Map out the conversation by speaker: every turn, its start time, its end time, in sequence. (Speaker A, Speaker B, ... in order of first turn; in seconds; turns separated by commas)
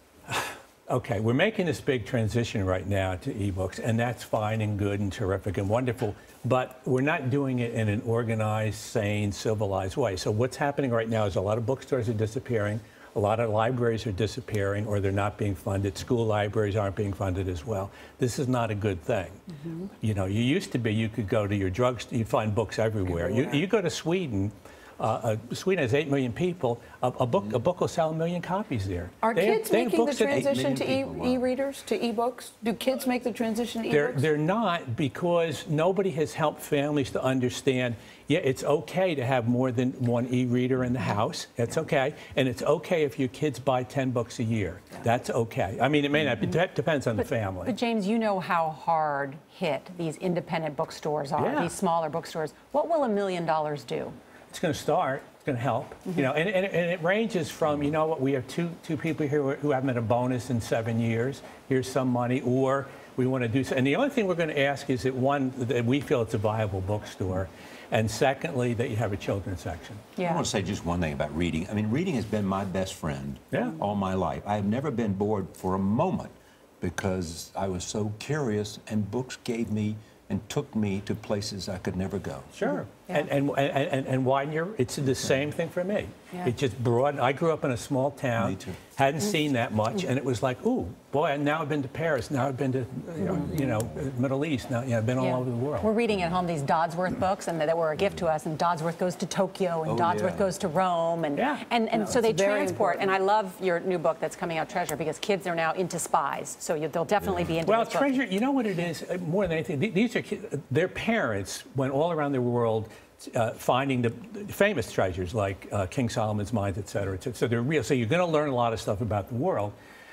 Speaker A: 0.3-19.4, Speaker A: 20.0-30.5, Speaker B: 23.1-23.6, Speaker B: 29.2-34.2, Speaker C: 30.3-31.4, Speaker A: 33.9-47.7, Speaker D: 47.2-54.1, Speaker A: 51.4-51.7, Speaker A: 54.5-70.2, Speaker D: 70.2-70.4, Speaker C: 70.2-82.5, Speaker A: 73.5-73.8, Speaker A: 82.5-95.9, Speaker D: 82.9-83.2, Speaker C: 88.4-88.8, Speaker D: 95.2-108.2, Speaker C: 99.8-100.5, Speaker A: 101.3-101.6, Speaker B: 101.9-103.1, Speaker A: 107.6-119.7